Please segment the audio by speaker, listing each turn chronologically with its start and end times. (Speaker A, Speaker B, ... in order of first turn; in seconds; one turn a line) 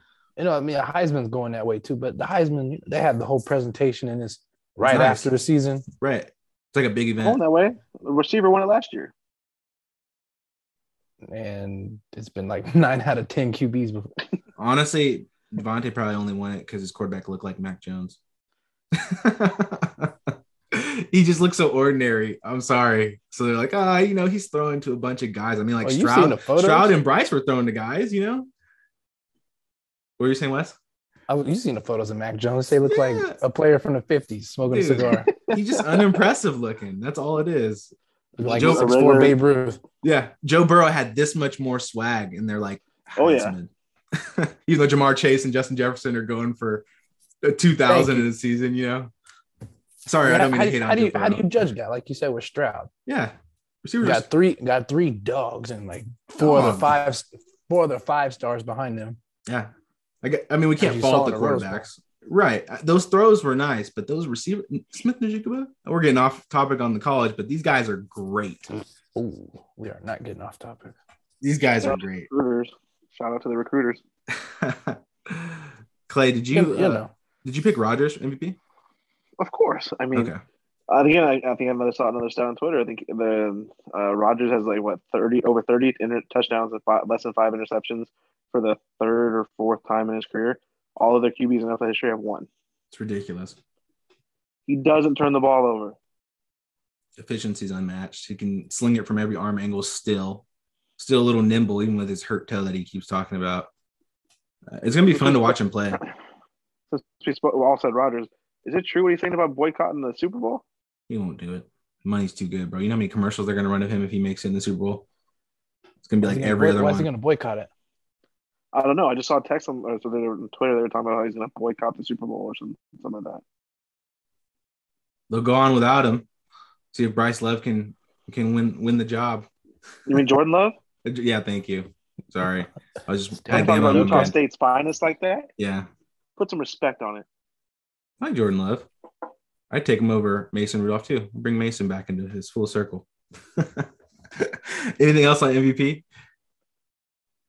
Speaker A: 0.4-5.8
Speaker B: 4.8-5.3
Speaker B: 6.0-7.4
Speaker C: 7.2-9.1
Speaker A: 11.2-14.1
Speaker B: 14.6-18.2
Speaker B: 18.9-28.5
Speaker A: 25.8-26.9
Speaker B: 30.2-30.8
Speaker A: 31.3-35.3
Speaker B: 32.9-33.4
Speaker B: 34.7-37.9
Speaker C: 35.3-36.2
Speaker A: 38.4-39.8
Speaker C: 38.4-39.3
Speaker B: 38.5-38.9
Speaker B: 40.0-46.8
Speaker C: 43.2-43.5
Speaker B: 47.4-49.1
Speaker A: 47.9-48.2
Speaker B: 50.0-51.4
Speaker A: 50.2-52.9
Speaker B: 53.0-54.2
Speaker A: 54.0-59.2
Speaker B: 56.4-56.9
Speaker B: 60.2-68.6
Speaker A: 60.8-61.9
Speaker A: 69.1-71.0
Speaker B: 71.4-72.3
Speaker C: 71.8-74.0
Speaker B: 74.3-78.6
Speaker A: 76.5-77.1
Speaker C: 79.4-80.3
Speaker B: 80.1-80.4
Speaker C: 80.9-92.5
Speaker B: 92.9-93.6
Speaker C: 94.7-96.0
Speaker B: 97.2-100.4
Speaker B: 101.0-103.7
Speaker B: 104.7-106.0
Speaker C: 105.1-105.6
Speaker C: 106.9-110.6
Speaker B: 111.1-115.0
Speaker B: 116.0-117.1
Speaker A: 116.2-117.7
Speaker C: 118.7-123.4
Speaker B: 125.3-126.3
Speaker B: 126.9-129.5
Speaker C: 130.1-130.8
Speaker B: 131.0-134.3
Speaker A: 133.4-134.3
Speaker C: 133.5-135.5
Speaker B: 135.6-135.9
Speaker C: 136.4-137.2
Speaker B: 138.2-138.9
Speaker B: 139.7-146.0